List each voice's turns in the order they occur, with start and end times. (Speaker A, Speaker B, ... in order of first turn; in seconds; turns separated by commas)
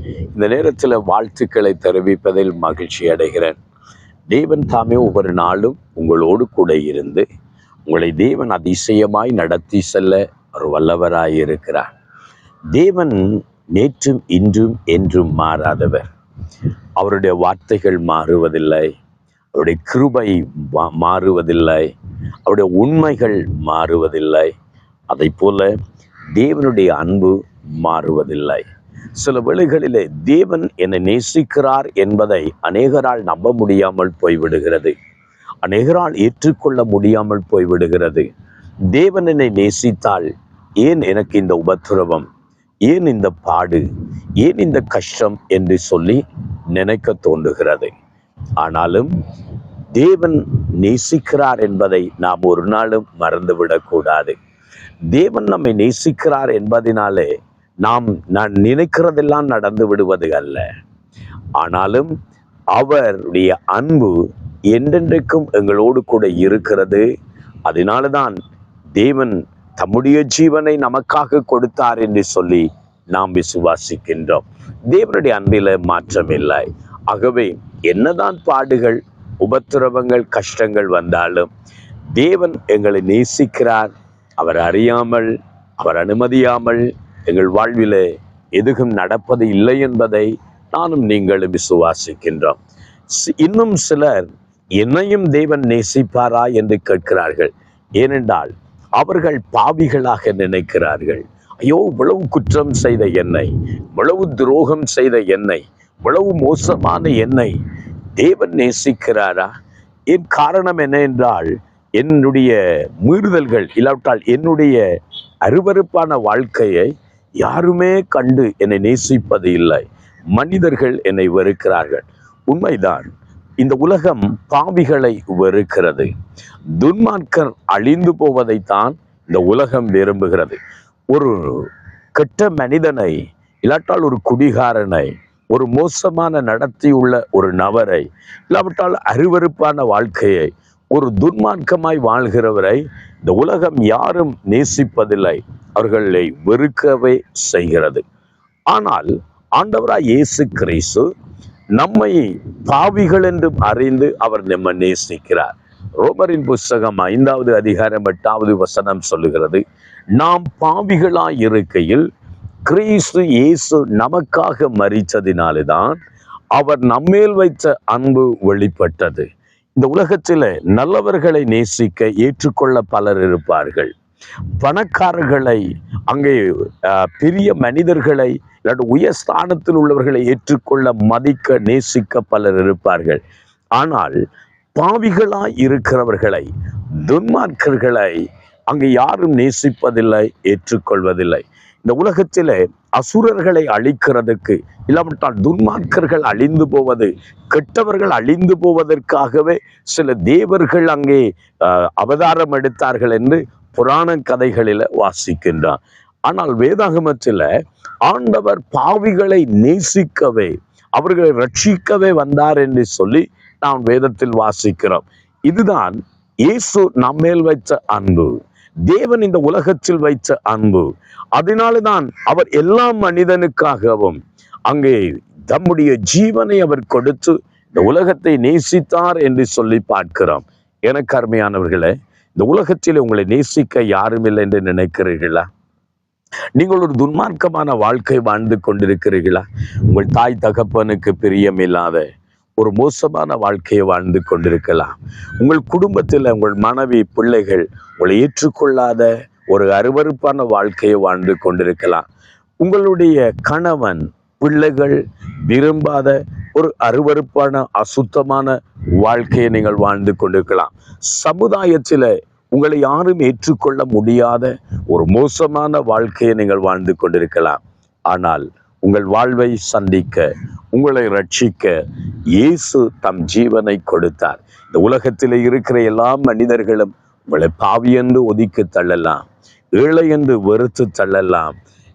Speaker A: 0.3-3.6, Speaker A: 4.3-7.2, Speaker A: 7.9-11.9, Speaker A: 12.7-16.1, Speaker A: 17.0-18.9, Speaker A: 19.5-21.9, Speaker A: 22.4-24.5, Speaker A: 25.1-25.7, Speaker A: 26.3-28.6, Speaker A: 29.1-34.9, Speaker A: 35.6-38.3, Speaker A: 38.9-40.3, Speaker A: 40.8-42.3, Speaker A: 42.9-43.8, Speaker A: 44.4-46.2, Speaker A: 46.7-47.9, Speaker A: 48.6-49.1, Speaker A: 49.9-54.4, Speaker A: 55.1-60.6, Speaker A: 61.6-62.1, Speaker A: 62.7-64.2, Speaker A: 64.7-67.0, Speaker A: 67.7-68.3, Speaker A: 69.0-81.5, Speaker A: 82.1-92.6, Speaker A: 93.1-94.3, Speaker A: 94.8-107.5, Speaker A: 108.2-109.5, Speaker A: 110.1-114.8, Speaker A: 115.4-123.1, Speaker A: 123.6-126.1, Speaker A: 126.8-130.6, Speaker A: 131.1-148.0, Speaker A: 148.7-151.1, Speaker A: 151.8-159.6, Speaker A: 160.1-162.0, Speaker A: 162.7-166.0, Speaker A: 166.5-173.9, Speaker A: 174.6-183.2, Speaker A: 183.8-184.2, Speaker A: 184.7-186.4, Speaker A: 187.0-207.4, Speaker A: 208.0-218.3, Speaker A: 218.9-235.5, Speaker A: 236.6-242.0, Speaker A: 242.6-252.1, Speaker A: 252.6-271.7, Speaker A: 272.3-281.5